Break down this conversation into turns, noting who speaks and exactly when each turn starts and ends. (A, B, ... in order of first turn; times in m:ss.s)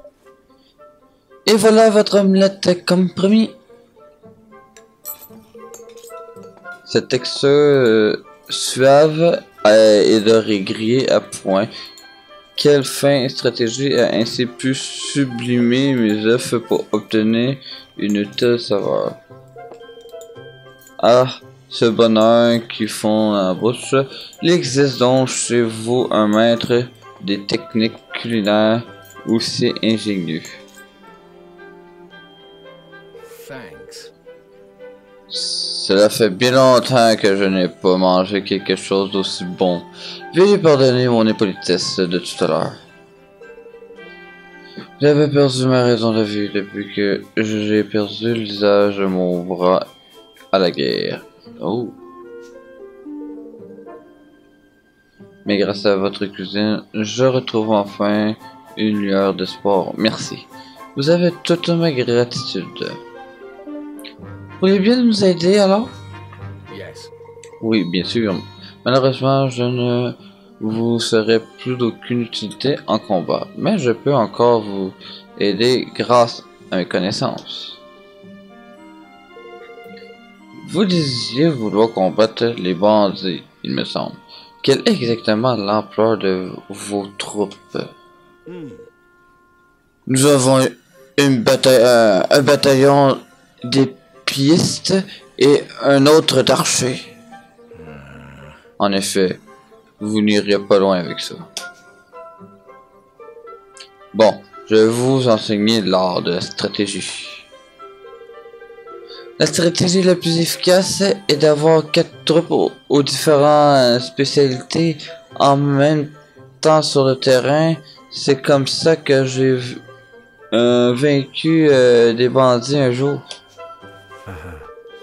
0:01.4-0:03.6 A
0:06.8-0:11.7 A
0:12.6-0:19.2 A
0:21.0-0:30.6 A
0:33.2-0:34.1 B
0:35.3-0:42.8 A
0:45.0-0:49.9 A
0:50.5-0:52.0 A
0:55.4-1:03.0 A
1:04.6-1:05.9 A
1:06.7-1:07.1 B
1:07.6-1:17.8 A
1:20.6-1:27.9 A
1:28.5-1:28.9 B
1:30.1-1:37.1 A
1:37.8-1:38.5 B
1:38.8-1:39.4 A
1:40.0-1:41.4 A
1:44.1-1:47.5 A
1:49.4-1:59.8 A
2:00.5-2:03.2 A
2:04.3-2:04.6 B